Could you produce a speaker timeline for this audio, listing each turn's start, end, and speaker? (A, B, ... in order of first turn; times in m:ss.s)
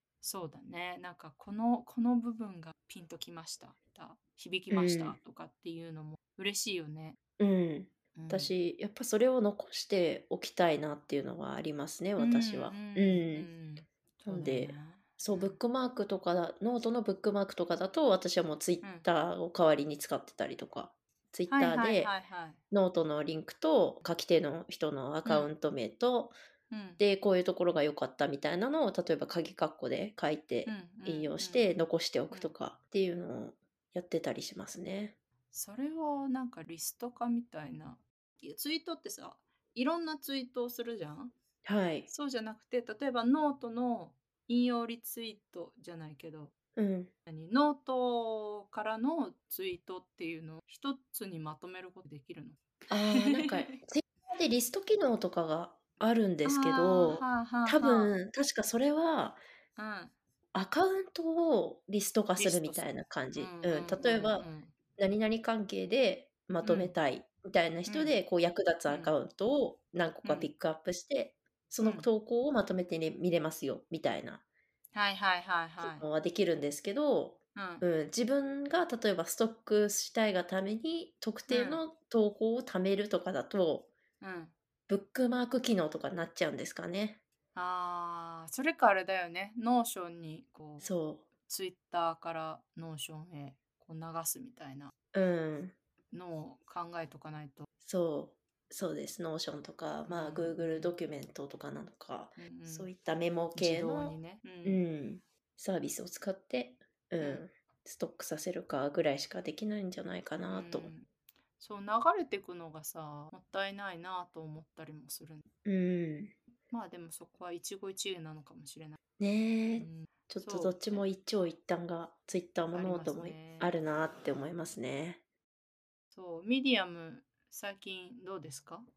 0:00.2-0:07.2 A
0:04.7-0:05.2 B
0:07.4-0:13.5 B
0:08.1-0:08.5 A
0:12.2-0:15.6 A
0:14.3-0:22.1 B
0:18.8-0:19.1 A
0:21.5-0:22.6 A
0:22.7-0:26.3 B
0:25.2-0:25.5 A
0:26.7-0:27.0 A
0:27.0-0:35.2 B
0:30.6-0:31.7 A
0:35.5-0:41.3 A
0:41.6-0:42.1 B
0:42.1-0:46.5 A
0:46.8-0:47.1 B
0:47.2-0:53.8 A
0:52.9-0:59.4 B
0:56.4-0:58.1 A
0:59.8-1:00.1 A
1:00.5-1:14.4 B
1:02.4-1:04.7 A
1:06.6-1:07.0 A
1:07.9-1:08.2 A
1:10.2-1:10.5 A
1:11.8-1:12.1 A
1:14.9-1:16.0 A
1:15.8-1:23.9 B
1:17.6-1:17.8 A
1:21.5-1:21.8 A
1:24.2-1:24.5 A
1:24.9-1:27.2 B
1:27.5-1:30.9 A
1:30.8-1:31.2 B
1:31.4-1:34.9 A
1:35.1-1:35.8 B
1:36.1-1:37.7 A
1:37.8-1:50.9 B
1:40.1-1:41.0 A
1:42.4-1:42.9 A
1:43.5-1:44.8 A
1:50.5-1:51.1 A
1:51.6-1:55.4 A
1:55.6-1:56.3 B
1:56.7-1:59.0 A
1:59.2-2:05.2 B
1:59.8-2:01.0 A
2:02.7-2:03.8 A
2:06.1-2:08.9 A